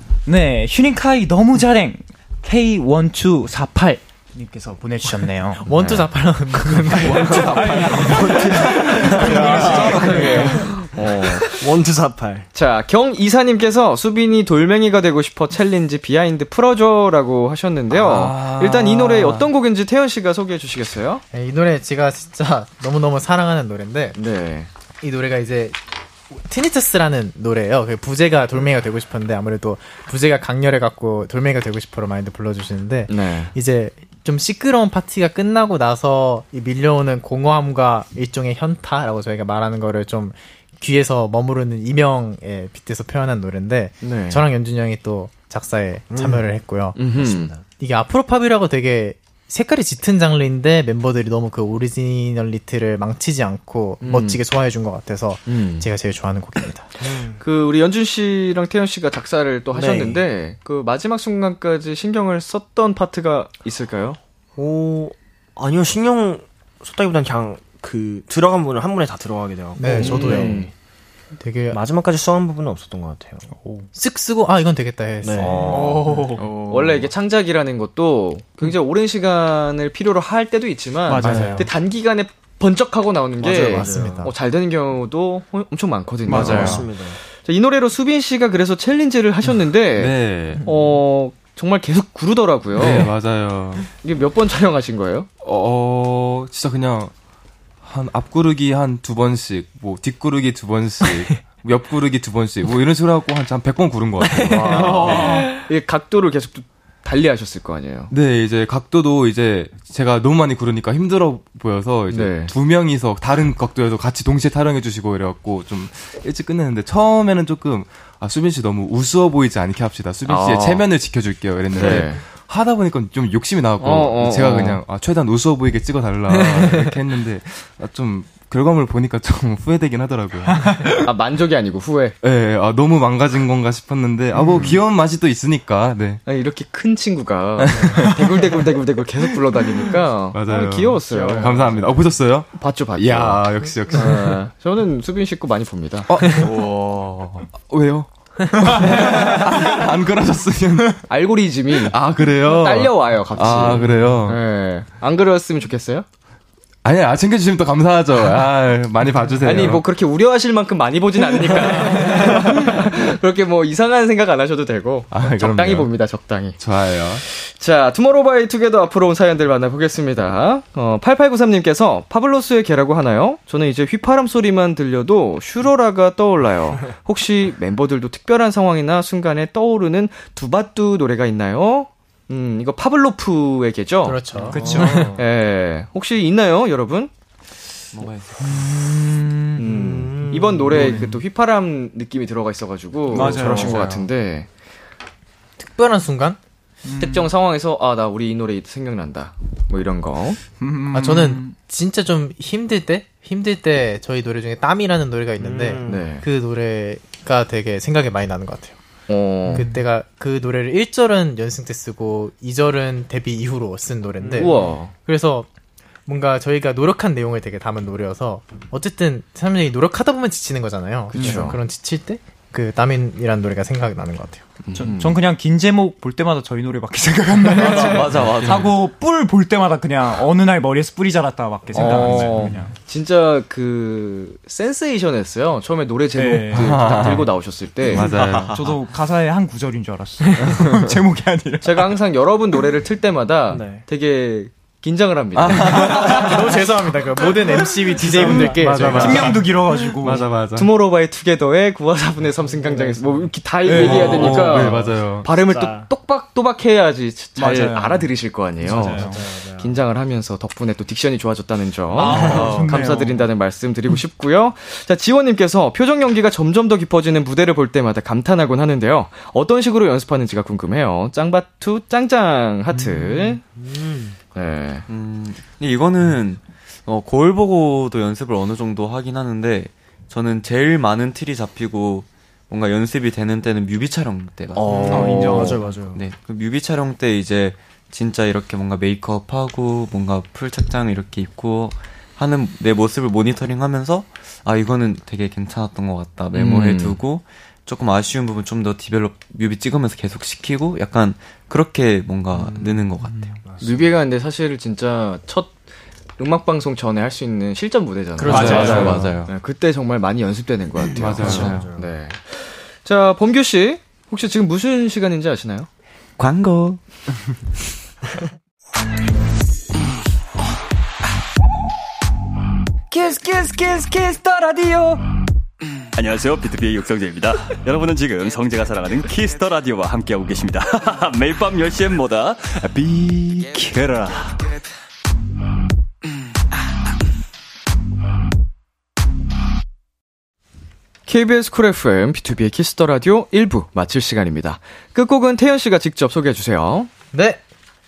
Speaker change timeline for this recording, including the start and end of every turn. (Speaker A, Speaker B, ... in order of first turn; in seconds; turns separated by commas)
Speaker A: 0.2-5.6, Speaker B: 5.7-7.9, Speaker C: 7.0-10.7, Speaker D: 7.1-10.4, Speaker A: 7.3-10.8, Speaker E: 9.2-11.5, Speaker D: 11.5-12.5, Speaker E: 12.5-21.2, Speaker C: 17.9-19.5, Speaker B: 21.3-24.2, Speaker E: 24.1-24.7, Speaker B: 25.0-25.8, Speaker B: 26.4-47.1, Speaker E: 33.1-33.5, Speaker E: 44.0-44.4, Speaker D: 46.1-46.4, Speaker E: 46.9-47.5, Speaker D: 47.2-47.6, Speaker B: 47.6-56.9, Speaker E: 54.0-54.4, Speaker E: 55.5-55.9, Speaker D: 57.0-57.4, Speaker E: 57.4-64.2, Speaker D: 59.7-60.2, Speaker D: 64.5-70.7, Speaker B: 69.8-70.6, Speaker E: 70.0-70.7, Speaker B: 71.4-71.8, Speaker D: 71.7-73.5, Speaker B: 73.9-76.3, Speaker D: 75.2-76.3, Speaker A: 75.6-76.5, Speaker E: 75.6-86.9, Speaker F: 76.6-76.9, Speaker A: 81.1-81.7, Speaker D: 83.4-84.3, Speaker B: 83.5-84.3, Speaker A: 86.3-86.8, Speaker D: 86.3-87.2, Speaker C: 86.4-86.7, Speaker E: 87.4-93.1, Speaker C: 90.0-90.7, Speaker C: 92.8-93.9, Speaker E: 94.0-95.3, Speaker C: 95.4-97.1, Speaker C: 97.8-105.5, Speaker E: 104.4-108.1, Speaker A: 104.7-105.5, Speaker C: 108.1-130.9, Speaker E: 112.1-112.5, Speaker E: 120.2-120.9, Speaker E: 121.7-122.2, Speaker E: 123.8-124.8, Speaker E: 131.0-132.2, Speaker C: 132.2-136.2, Speaker A: 134.4-134.7, Speaker E: 136.2-141.9, Speaker C: 137.6-138.5, Speaker C: 140.3-144.4, Speaker E: 142.5-146.1, Speaker C: 146.1-146.5, Speaker F: 146.3-147.4, Speaker C: 147.5-151.0, Speaker A: 148.7-149.2, Speaker E: 151.1-156.1, Speaker C: 151.8-154.4, Speaker C: 156.8-159.8, Speaker E: 159.4-166.6, Speaker C: 165.1-165.9, Speaker C: 166.6-167.2, Speaker E: 167.1-187.1, Speaker B: 184.0-185.2, Speaker A: 184.5-185.2, Speaker D: 184.5-185.1, Speaker F: 187.9-188.7, Speaker A: 188.5-189.5, Speaker E: 189.6-194.5, Speaker D: 189.6-190.9, Speaker A: 190.8-191.2, Speaker A: 193.1-194.1, Speaker D: 193.1-193.7, Speaker B: 195.6-196.4, Speaker A: 196.8-197.3, Speaker E: 197.0-200.4, Speaker A: 200.6-201.5, Speaker B: 200.9-208.8, Speaker D: 205.4-206.1, Speaker E: 205.8-206.2, Speaker E: 209.1-209.7, Speaker B: 209.5-215.5, Speaker A: 209.5-209.8, Speaker D: 214.2-214.6, Speaker E: 214.4-214.9, Speaker B: 216.1-224.4, Speaker E: 221.1-221.6, Speaker E: 224.7-225.2, Speaker A: 224.7-232.7, Speaker F: 227.4-228.8, Speaker E: 231.7-238.1, Speaker F: 231.8-232.1, Speaker C: 232.0-232.4, Speaker A: 236.2-237.2, Speaker C: 236.5-237.3, Speaker C: 237.9-238.6, Speaker F: 237.9-238.6, Speaker A: 238.5-241.9, Speaker E: 241.6-246.4, Speaker D: 243.5-243.8, Speaker C: 245.3-246.4, Speaker B: 246.0-249.4, Speaker D: 248.0-249.0, Speaker C: 248.0-250.7, Speaker A: 248.3-250.4, Speaker E: 250.5-273.4, Speaker D: 252.3-253.3, Speaker A: 253.7-254.5, Speaker C: 253.7-255.3, Speaker D: 254.3-254.7, Speaker D: 255.2-255.9, Speaker A: 257.4-259.2, Speaker D: 258.6-259.8, Speaker A: 262.0-263.2, Speaker D: 262.0-262.7, Speaker F: 262.0-262.6, Speaker D: 273.5-274.1, Speaker E: 274.3-274.9, Speaker F: 274.9-303.4, Speaker E: 284.6-285.5, Speaker D: 284.6-286.0, Speaker A: 284.9-285.7, Speaker E: 296.3-297.0, Speaker D: 302.3-302.9, Speaker D: 303.4-303.9, Speaker E: 303.6-305.5, Speaker E: 306.2-315.7, Speaker B: 308.2-309.0, Speaker A: 308.3-309.0, Speaker C: 308.3-309.1, Speaker F: 308.3-309.3, Speaker C: 310.9-311.6, Speaker D: 311.1-311.9, Speaker F: 316.2-316.8, Speaker G: 322.9-325.0, Speaker H: 325.9-334.4, Speaker E: 341.1-346.9, Speaker B: 347.1-347.4